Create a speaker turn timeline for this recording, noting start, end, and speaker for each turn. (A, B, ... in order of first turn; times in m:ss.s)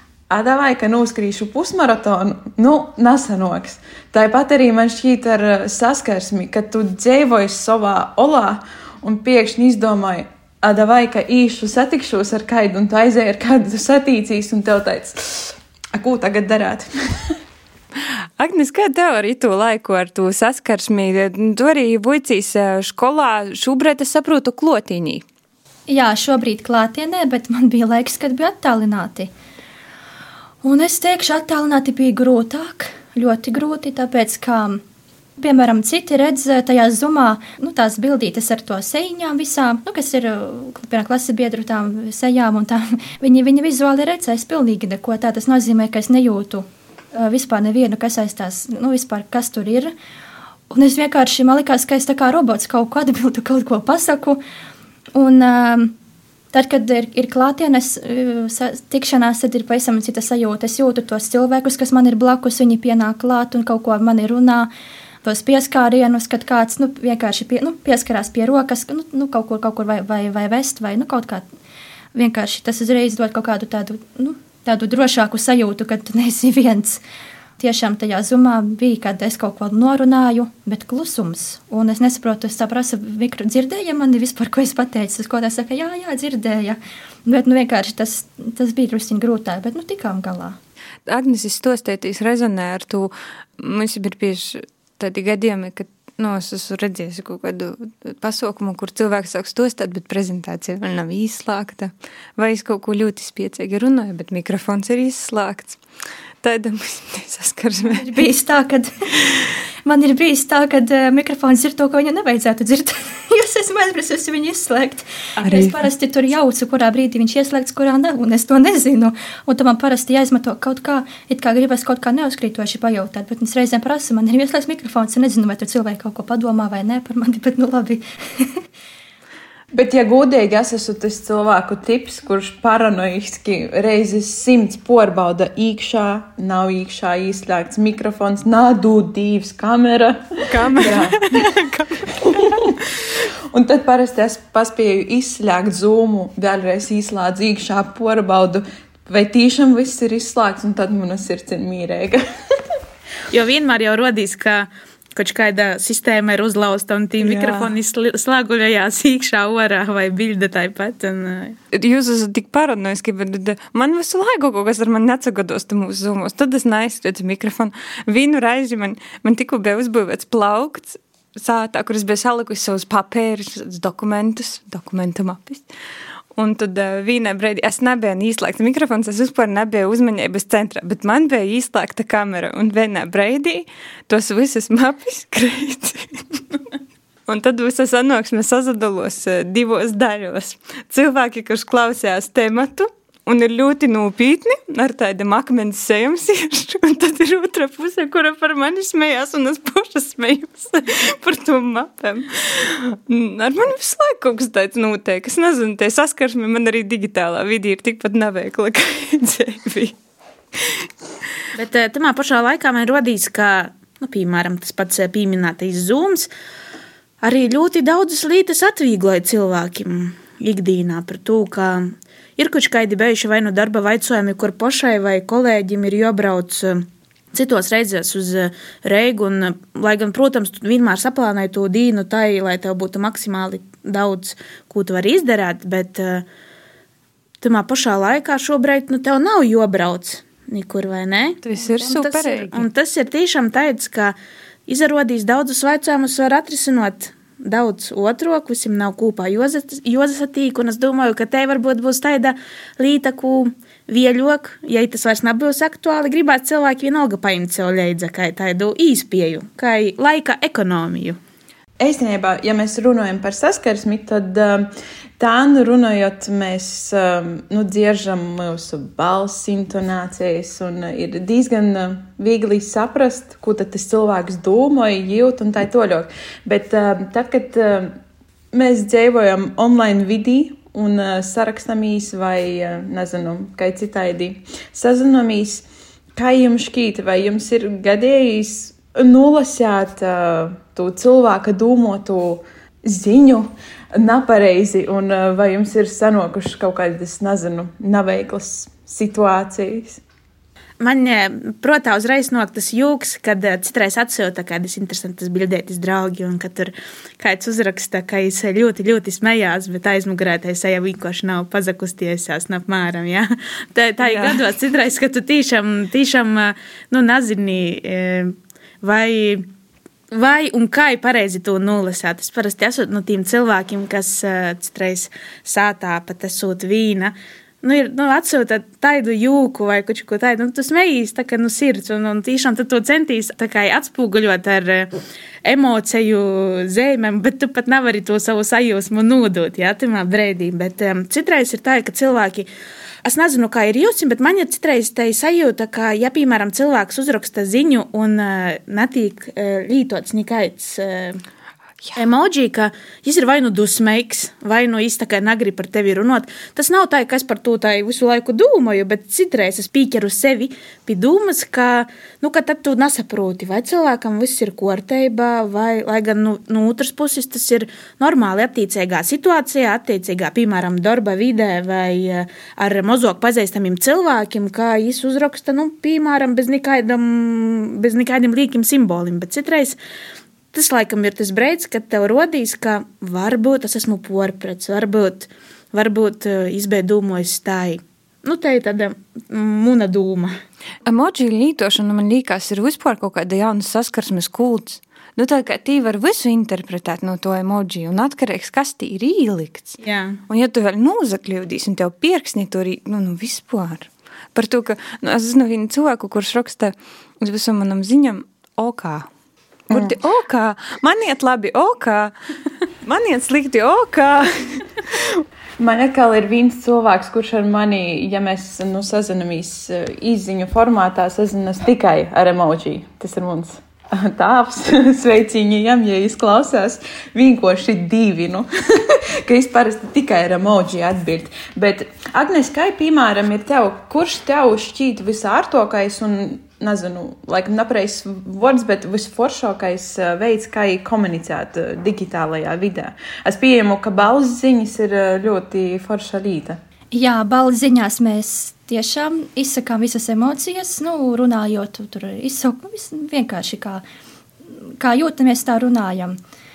0:00.3-0:17.4 A
0:18.4-0:25.2 B
0:25.9-0:29.3 C
0:30.6-0:34.8 C
0:35.4-0:49.9 C
0:50.7-0:54.4 C
0:55.1-0:55.9 C
0:56.5-1:04.7 C
1:05.2-1:11.4 C
1:12.1-1:17.0 C
1:17.6-1:30.6 C
1:31.1-1:45.8 B
1:46.4-1:48.2 B
1:47.9-1:49.1 C
1:49.8-2:08.6 C
1:55.4-1:55.8 B
2:09.7-2:21.6 A
2:20.4-2:22.7 B
2:22.1-2:32.6 A
2:33.3-2:41.6 D
2:37.2-2:37.6 A
2:41.7-2:55.7 B
2:56.4-3:06.5 B
3:07.3-3:29.9 B
3:30.6-3:30.9 B
3:31.5-3:36.3 D
3:37.2-3:56.2 D
3:57.4-4:04.2 D
4:01.4-4:02.7 B
4:04.7-4:21.2 D
4:21.8-4:24.7 A
4:25.2-4:37.9 A
4:38.5-5:00.0 A
5:00.8-5:19.4 D
5:14.0-5:14.4 B
5:20.1-5:34.9 D
5:35.4-5:42.5 D
5:43.0-5:51.2 D
5:51.9-6:19.8 D
6:20.5-6:30.3 D
6:30.8-6:49.1 B
6:39.8-6:40.2 D
6:49.7-6:52.1 B
6:49.7-6:50.0 A
6:52.8-6:54.7 B
6:55.6-7:26.6 A
7:26.9-7:33.8 C
7:34.8-7:36.2 C